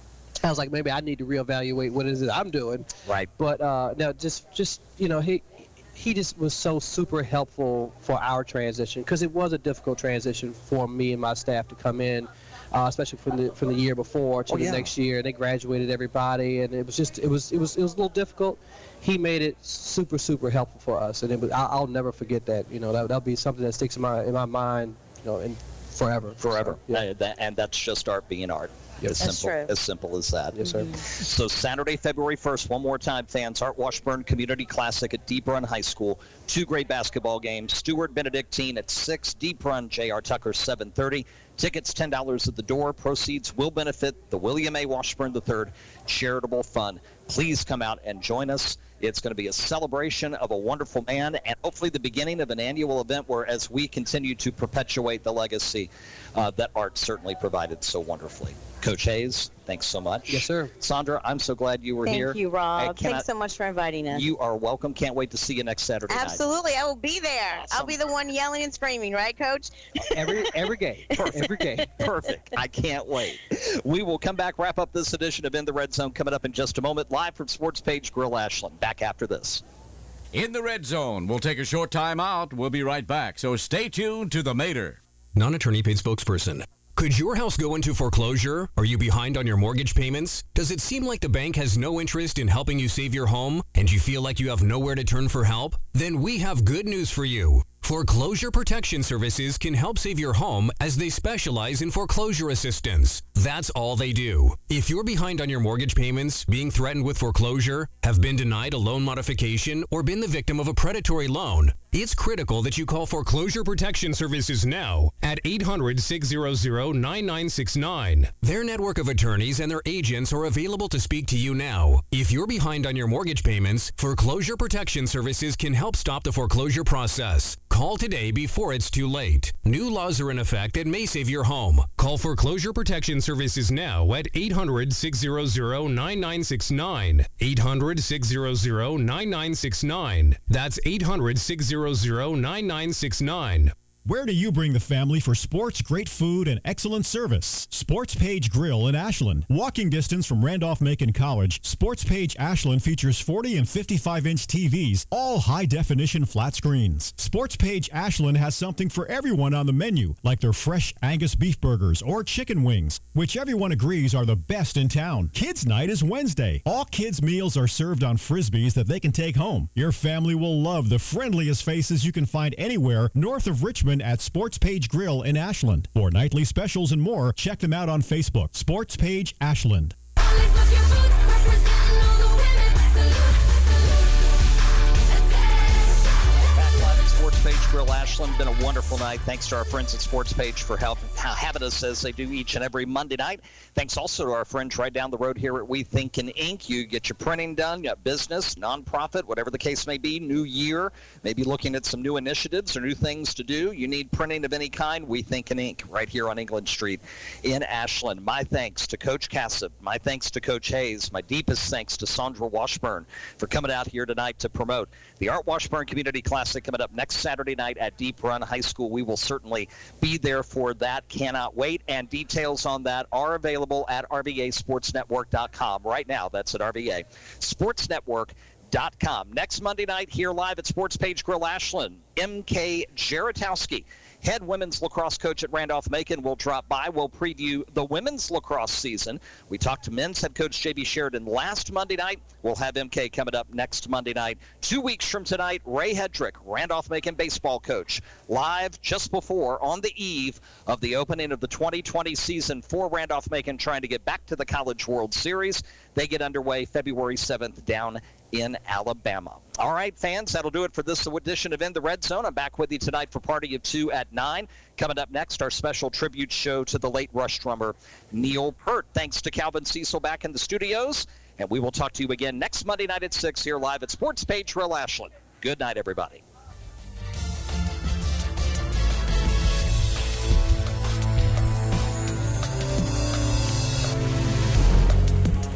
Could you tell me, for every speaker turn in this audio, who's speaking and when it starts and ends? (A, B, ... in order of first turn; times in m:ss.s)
0:00.4-0:27.0 A
0:03.0-0:03.3 B
0:14.5-0:14.9 B
0:26.4-1:03.2 B
0:29.2-0:29.7 C
0:30.6-0:30.9 A
1:00.3-1:00.7 A
1:02.0-1:04.3 C
1:04.1-1:06.4 B
1:06.1-1:10.6 C
1:07.6-1:07.9 B
1:10.1-1:11.9 A
1:11.1-1:19.6 B
1:20.3-1:25.0 D
1:25.3-2:23.7 E
2:24.0-2:59.9 F
3:06.5-4:36.2 B